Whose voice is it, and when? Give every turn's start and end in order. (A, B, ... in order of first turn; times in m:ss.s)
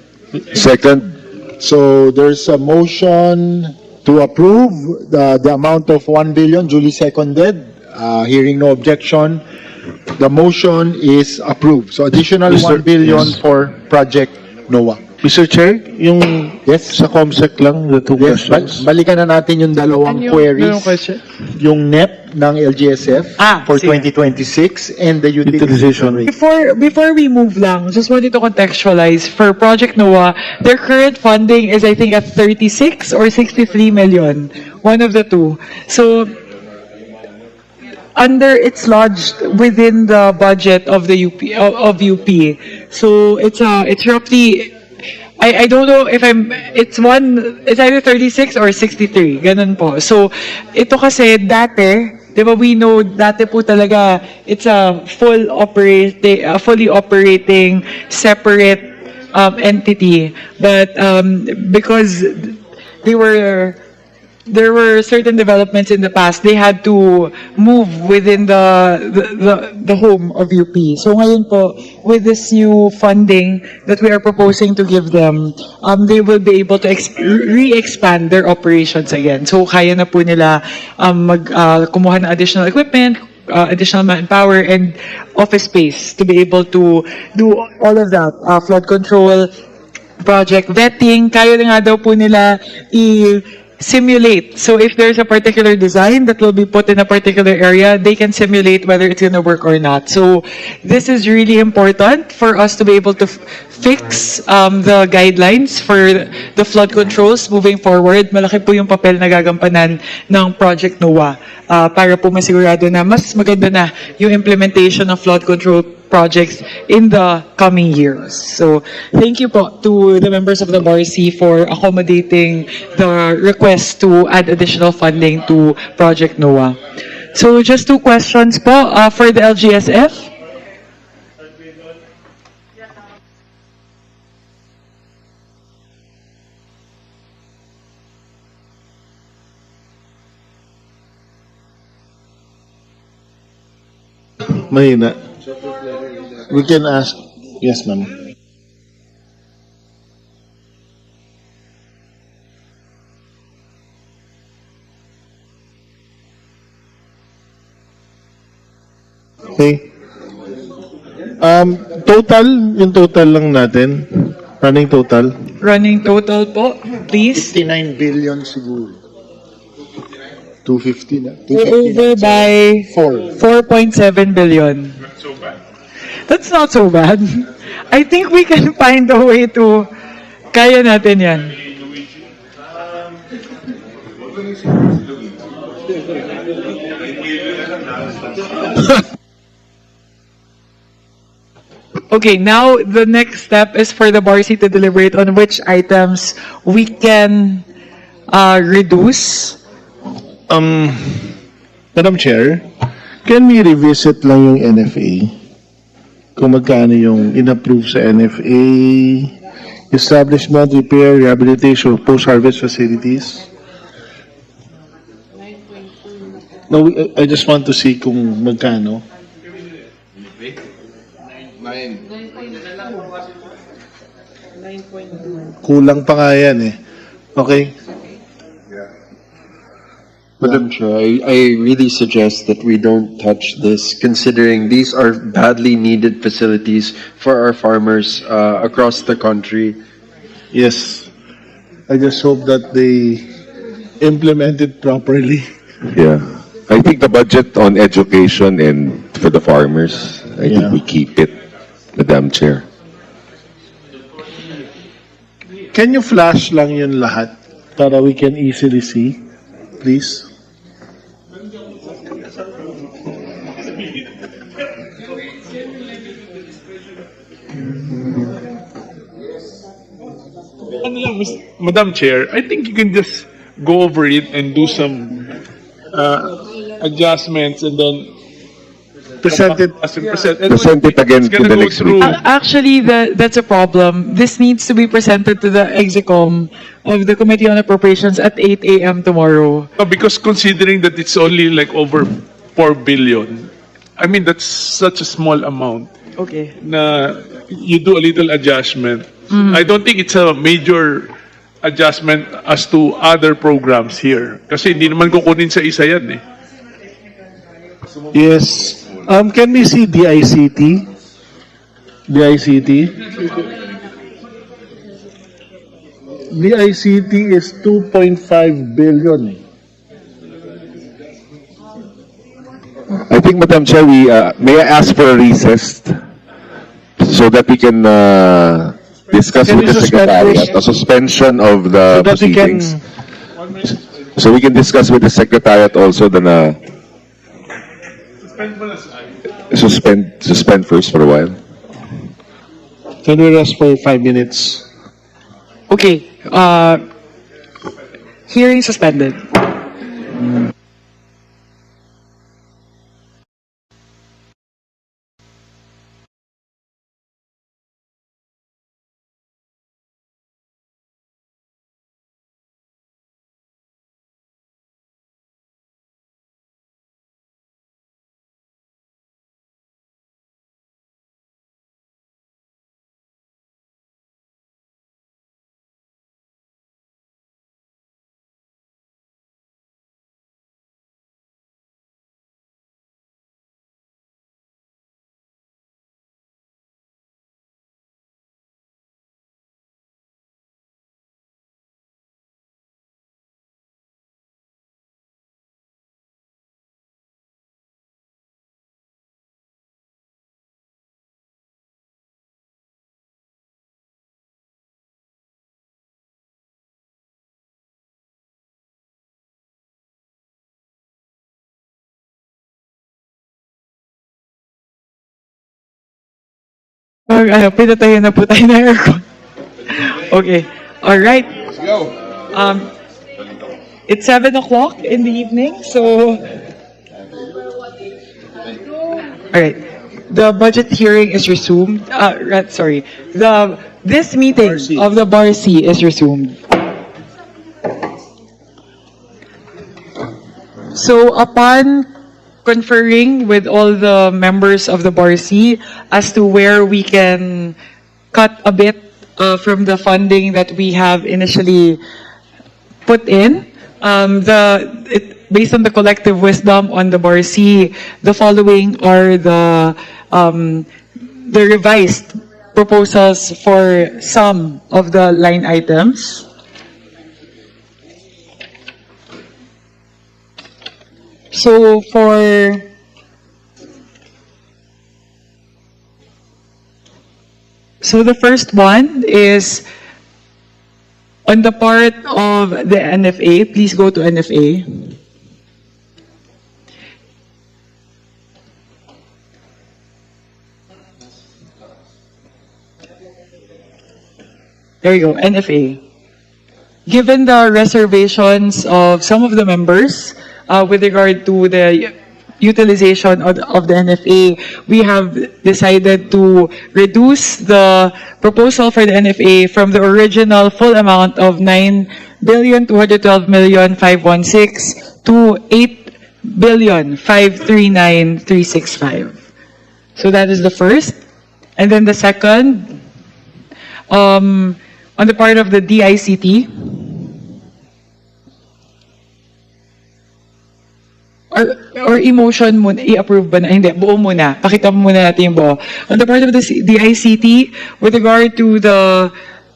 0:00.5-0:01.1 A
0:01.6-0:09.4 B
0:10.1-0:15.1 B
0:12.5-0:13.4 C
0:15.2-0:18.8 C
0:16.7-0:17.0 B
0:18.2-0:21.0 B
0:20.0-0:21.2 D
0:21.6-0:26.3 B
0:23.4-0:24.1 D
0:25.5-0:26.3 C
0:26.3-0:36.3 D
0:38.2-0:44.8 D
0:45.4-1:03.8 D
1:04.5-1:29.5 D
1:30.2-2:06.8 D
2:07.3-2:10.3 D
2:24.5-2:25.2 C
2:26.5-2:28.1 C
2:39.6-2:39.8 C
2:41.4-2:45.3 C
2:45.6-2:47.5 D
2:47.3-2:49.0 B
2:50.6-2:53.3 B
2:51.5-2:55.0 D
2:56.3-2:59.9 D
3:00.5-3:01.6 D
3:12.1-3:17.7 D
3:18.3-3:19.6 D
3:20.5-3:21.3 C
3:21.9-3:22.6 C
3:23.2-3:25.3 C
3:26.4-3:29.3 C
3:29.9-3:33.4 C
3:36.7-3:39.0 C
3:45.6-3:46.8 C
3:47.3-3:47.7 C
3:50.4-3:50.6 C
3:50.5-3:59.8 E
4:00.5-4:01.1 C
4:01.9-4:03.2 C
4:04.0-4:05.5 C
4:05.9-4:11.4 A
4:10.4-4:10.8 C
4:12.0-4:12.6 A
4:15.7-4:19.2 C
4:19.8-4:20.3 C
4:30.8-4:35.3 F
4:35.9-4:38.1 F
4:39.2-4:39.7 C
4:39.2-4:42.2 F
4:40.5-4:42.2 A
4:42.0-4:49.7 D
4:49.8-4:55.9 F
4:56.2-4:56.5 D
4:56.6-5:01.1 F
5:01.6-5:06.2 F
5:08.1-5:10.9 C
5:12.1-5:12.9 C
5:16.3-5:19.4 C
5:22.9-5:26.0 A
5:27.0-5:32.7 A
5:29.4-5:30.6 C
5:31.9-5:32.8 C
5:34.2-5:36.6 A
5:39.5-5:41.4 A
5:43.0-5:44.7 C
5:45.7-5:46.8 D
5:48.3-5:49.4 D
6:57.1-6:59.0 D
6:59.7-7:01.3 D
7:02.3-7:02.7 D
7:03.9-7:06.2 D
7:09.3-7:16.4 D
7:14.5-7:14.8 C
7:20.7-7:21.9 D
7:22.4-7:27.6 D
7:28.1-7:31.8 D
7:32.9-7:40.7 D
7:41.2-7:46.2 D
7:51.3-7:52.7 D
7:57.8-7:59.6 D
8:01.2-8:04.9 D
8:14.8-8:15.8 D
8:16.9-8:39.2 D
8:40.0-8:40.9 D
8:41.6-8:42.8 D
8:43.9-8:47.0 D
8:51.3-8:59.1 D